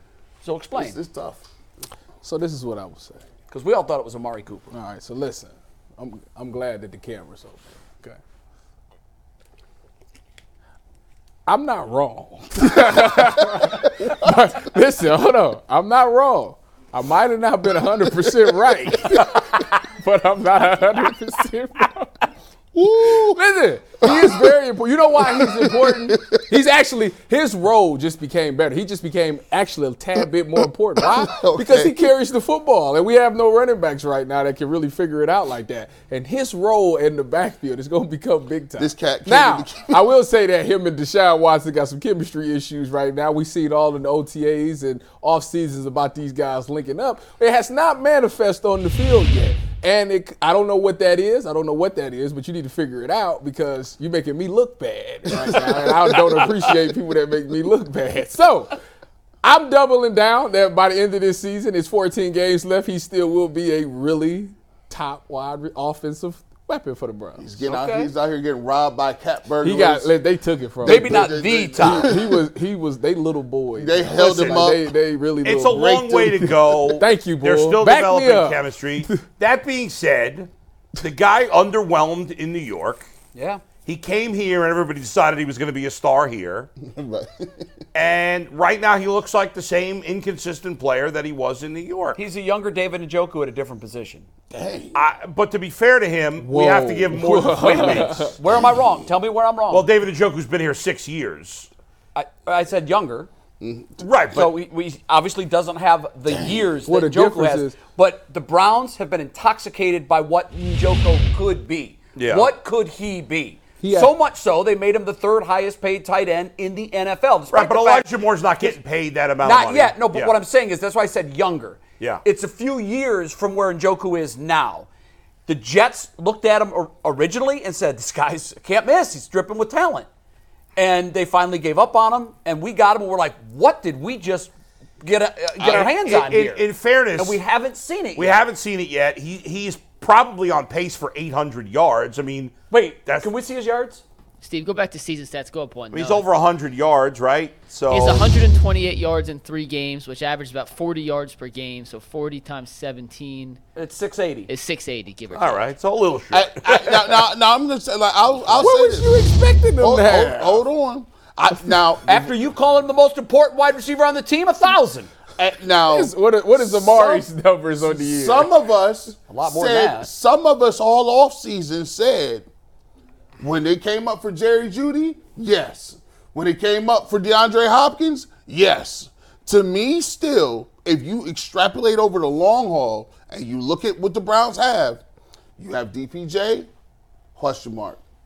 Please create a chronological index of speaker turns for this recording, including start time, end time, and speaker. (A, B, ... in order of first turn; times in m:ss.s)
0:00.4-0:01.0 A
0:00.7-0:01.4 B
0:02.2-0:03.2 C
0:03.5-0:04.7 A
0:04.7-0:08.2 C
0:11.4-0:22.3 C
0:12.6-0:13.7 B
0:18.2-0:19.3 B
0:22.7-0:23.4 B
0:23.2-0:58.8 C
0:24.0-0:24.5 B
0:25.2-0:26.4 B
0:31.1-0:32.0 B
0:38.8-0:40.1 B
0:55.3-0:56.9 B
0:59.4-1:07.5 C
1:07.4-1:10.1 B
1:07.6-1:08.1 A
1:09.6-1:19.2 C
1:10.8-1:12.4 B
1:10.8-1:12.1 A
1:13.8-1:14.9 B
1:14.1-1:14.7 D
1:15.4-1:20.5 D
1:15.7-1:16.5 B
1:21.0-1:23.0 D
1:23.3-1:23.6 A
1:23.8-1:26.7 D
1:26.8-1:27.6 B
1:27.9-1:32.2 D
1:32.1-1:34.2 A
1:34.5-1:35.0 B
1:34.9-1:38.3 D
1:36.4-1:38.4 C
1:37.8-1:39.9 A
1:39.7-1:41.7 D
1:42.1-1:43.3 A
1:43.6-1:44.0 B
1:44.0-1:44.5 D
1:44.3-1:58.8 A
1:46.3-1:46.6 B
1:46.8-1:47.8 C
1:52.1-1:52.5 D
1:53.8-1:54.1 C
1:57.5-2:00.4 D
1:59.4-2:04.9 A
2:05.5-2:10.1 A
2:10.8-2:14.5 A
2:15.0-2:18.4 A
2:15.6-2:17.4 D
2:18.2-2:23.3 D
2:22.7-2:24.0 A
2:24.4-2:26.2 E
2:25.9-2:28.3 D
2:27.9-2:33.6 E
2:33.7-2:34.5 A
2:34.5-2:35.7 E
2:35.3-2:37.2 D
2:36.3-2:39.1 B
2:38.5-2:40.6 C
2:39.8-2:42.3 B
2:42.0-2:45.1 A
2:45.4-2:47.3 B
2:45.9-2:48.5 C
2:47.8-2:52.4 B
2:49.3-2:50.1 A
2:53.4-3:05.0 B
3:05.6-3:06.7 B
3:07.4-3:08.0 B